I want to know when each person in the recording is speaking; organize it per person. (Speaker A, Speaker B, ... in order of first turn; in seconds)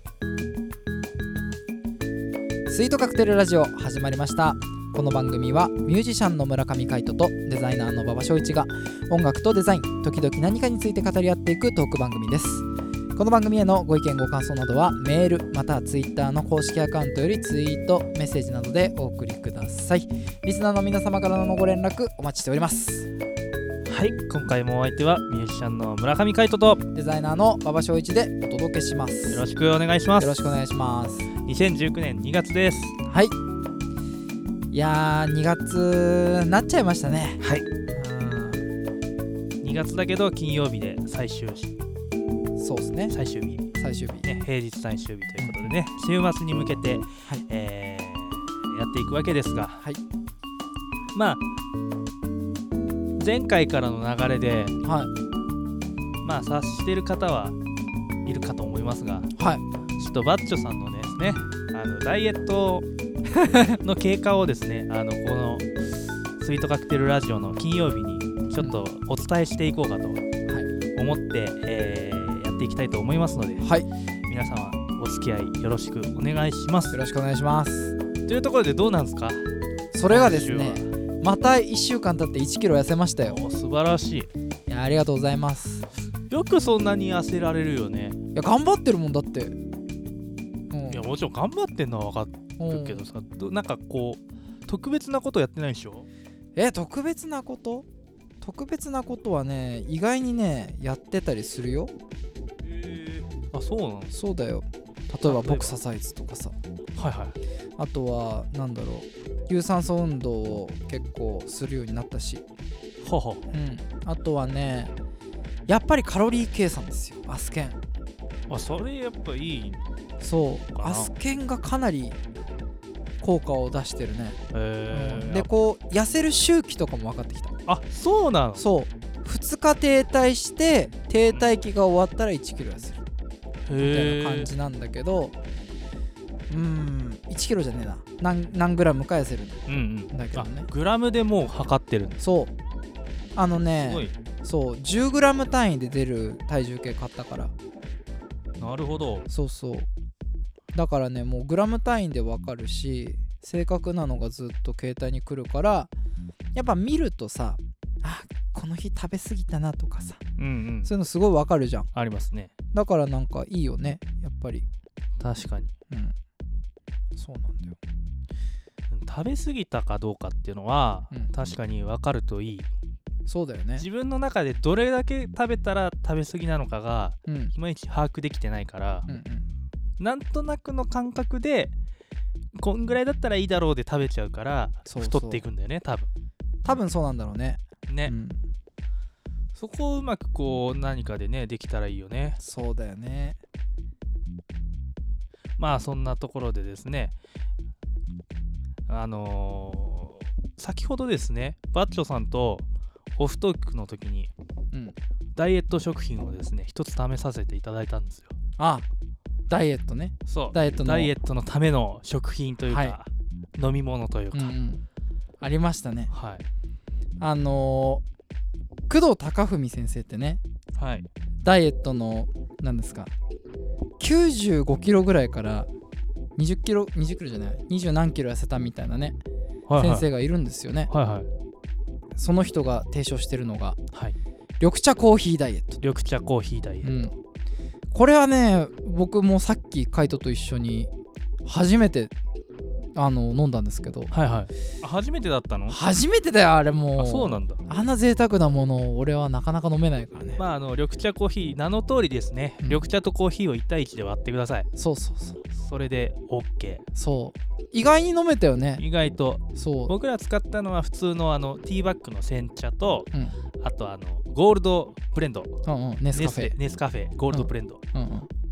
Speaker A: 2.7-23.1, 26.9-29.4, 30.2-31.3, 33.1-33.4, 34.7-38.7, 42.6-43.1, 43.8-44.3, 45.4-45.7, 54.8-55.1, 59.4-59.6, 73.6-73.9, 76.9-78.0, 79.9-83.4, 84.7-85.9, 88.3-89.6, 90.7-91.1, 92.6-93.1, 96.6-97.9, 98.4-101.9, 104.1-106.5, 107.8-112.4, 113.5-114.9, 115.7-117.8, 120.2-122.2, 123.2-124.4, 124.9-127.5, 128.6-133.0, 133.8-135.4, 136.5-139.6, 140.1-140.7, 142.2-142.5, 143.3-147.5, 149.3-149.9, 150.7-155.9, 156.5-160.2, 160.8-161.9, 162.7-164.7, 165.9-166.2, 167.2-167.8, 173.3-173.9, 177.3-177.5, 179.1-179.5, 184.9-185.4, 186.7-188.4, 192.4-193.4, 208.6-208.9, 209.5-211.1, 212.7-213.0, 214.3-214.8, 215.4-216.1, 217.2-218.0, 218.9-220.4, 221.4-223.1, 224.0-225.7, 226.4-229.2, 229.8-230.9, 232.2-233.8, 234.6-235.8, 236.8-237.1, 237.9-240.9, 241.4-242.1, 243.0-244.1, 245.7-250.4, 254.8-255.4, 256.9-258.8, 259.6-259.9, 265.7-266.6, 267.3-268.3
Speaker B: 23.9-26.8, 29.3-30.5, 31.4-33.0, 39.6-41.8, 43.1-43.6, 44.2-49.8, 51.1-51.4, 53.2-54.8, 56.2-57.6, 58.2-59.3, 60.0-62.9, 63.8-70.3, 71.0-73.7, 74.3-77.0, 78.3-79.5, 80.1-80.9, 83.2-84.3, 86.3-88.2, 90.9-96.1, 102.7-104.2, 105.3-105.8, 107.0-107.4, 113.0-113.5, 118.5-119.8, 120.7-121.1, 124.5-125.5, 127.7-128.7, 133.7-134.5, 139.7-142.2, 143.7-144.2, 148.6-149.3, 160.4-160.9, 161.9-162.5, 165.2-165.7, 168.9-172.7, 173.8-179.1, 180.0-181.7, 182.6-186.1, 187.9-188.1, 189.6-192.4, 195.6-197.2, 198.9-204.3, 205.4-208.3, 210.3-214.6, 216.1-216.4, 220.8-221.1, 229.7-230.1, 230.9-231.3, 235.8-237.0, 244.1-245.8, 247.0-247.6, 250.4-254.7, 255.5-256.8, 258.8-265.6, 266.1-267.8